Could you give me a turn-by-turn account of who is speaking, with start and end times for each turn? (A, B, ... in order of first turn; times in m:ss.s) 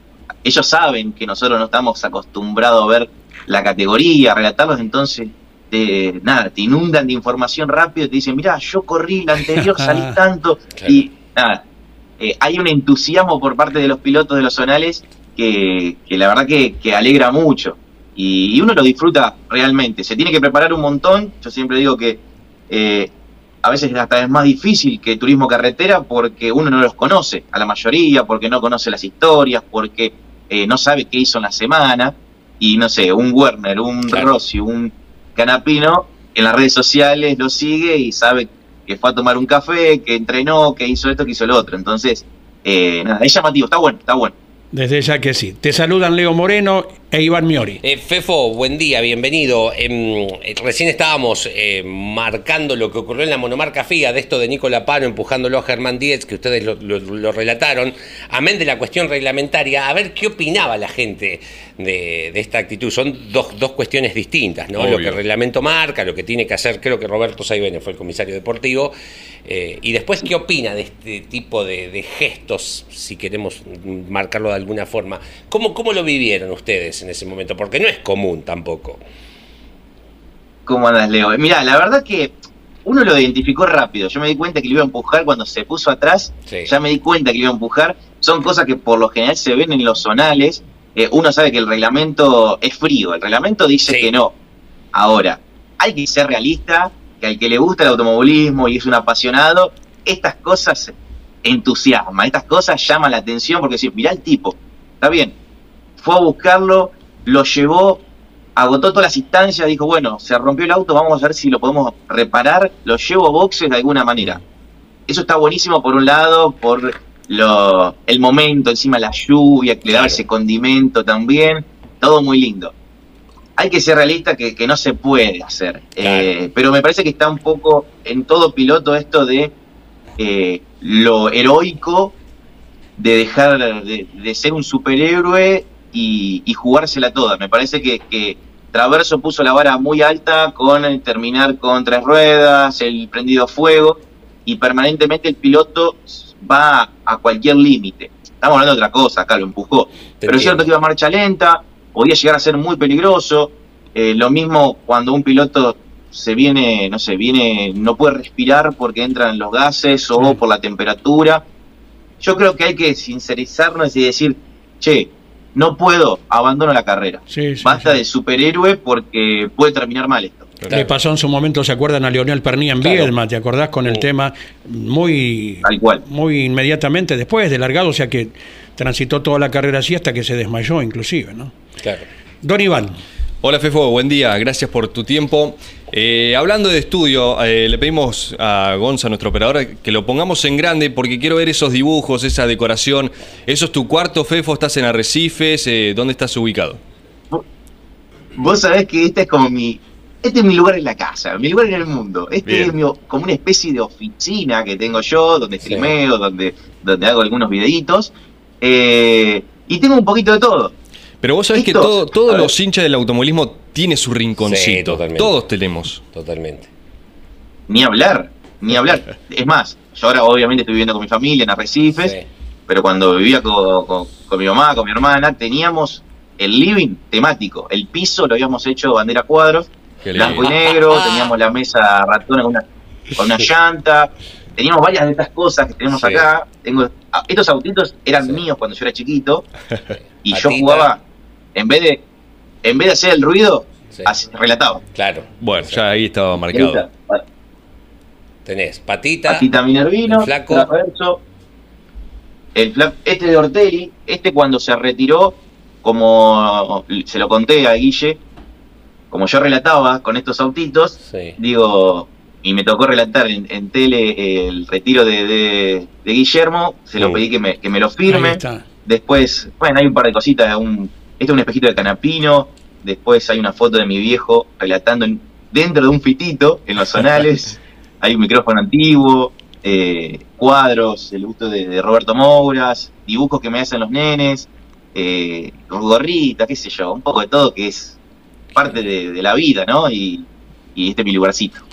0:00.4-0:11.6 A
0:09.6-0:10.2 B
0:10.8-0:11.0 C
0:12.2-0:23.1 A
0:23.6-0:44.3 A
0:44.7-0:47.8 B
0:47.8-1:08.9 C
1:04.8-1:05.2 D
1:09.5-1:19.0 C
1:20.7-1:34.3 A
1:26.5-1:26.7 C
1:33.9-1:34.1 C
1:34.9-1:45.4 A
1:46.0-1:48.0 A
1:48.6-1:54.4 A
1:55.1-2:02.7 A
1:59.9-2:00.2 C
2:03.6-2:09.5 A
2:06.0-2:06.3 C
2:10.2-2:12.2 A
2:13.0-2:41.4 A
2:30.2-2:30.7 C
2:42.2-2:50.5 A
2:47.3-2:48.0 B
2:50.7-3:01.5 B
2:52.8-2:53.1 C
2:55.6-2:56.0 A
3:01.8-3:02.0 C
3:02.4-3:03.0 B
3:03.4-3:16.8 D
3:18.4-3:30.7 A
3:22.4-3:22.8 D
3:25.6-3:25.9 C
3:31.2-3:36.0 D
3:31.5-3:32.5 A
3:34.4-3:35.3 C
3:36.1-3:36.7 C
3:37.7-3:42.1 A
3:42.0-3:42.3 C
3:42.7-3:52.6 A
3:50.0-3:50.5 D
3:50.1-3:51.4 C
3:53.2-3:59.5 A
3:55.9-3:56.3 C
4:00.2-4:01.0 A
4:00.3-4:00.9 C
4:01.6-4:02.0 A
4:02.6-4:04.8 A
4:04.9-4:05.8 C
4:05.4-4:06.8 D
4:06.5-4:07.2 A
4:08.5-4:09.5 C
4:09.3-4:11.2 A
4:10.1-4:10.7 C
4:12.6-4:18.2 A
4:19.1-4:48.0 A
4:21.1-4:21.4 C
4:27.0-4:27.2 C
4:28.1-4:28.6 B
4:48.6-4:51.6 A